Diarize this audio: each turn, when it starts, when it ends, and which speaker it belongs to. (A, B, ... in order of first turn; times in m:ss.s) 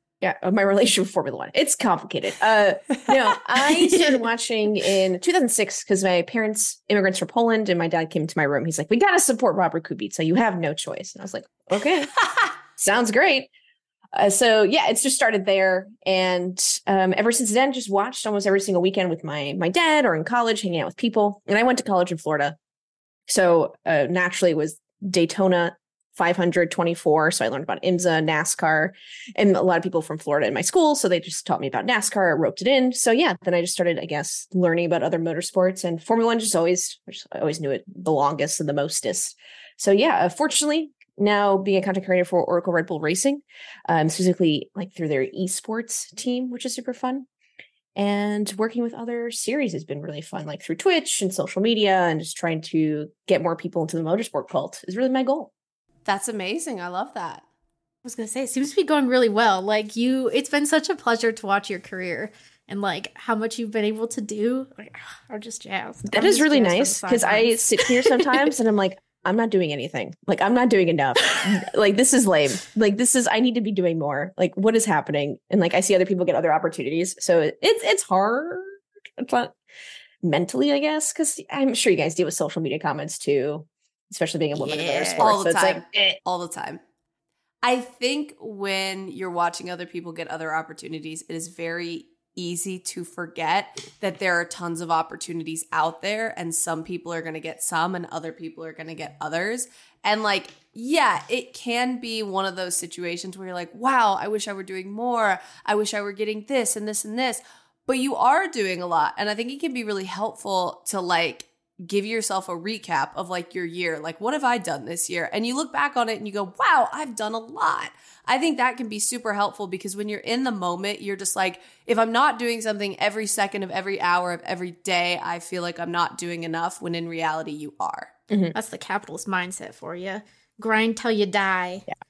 0:00.2-0:12.1 A
0:03.1-0:04.0 B
0:12.8-0:13.5 A
0:14.1-0:22.6 A
0:23.3-0:47.3 A
0:48.0-0:55.5 A
0:56.1-0:57.4 B
0:58.0-1:08.2 C
1:06.1-1:19.6 A
1:20.2-1:26.2 A
1:24.5-1:25.3 C
1:25.2-1:26.8 B
1:27.6-2:08.1 B
2:08.6-2:11.9 C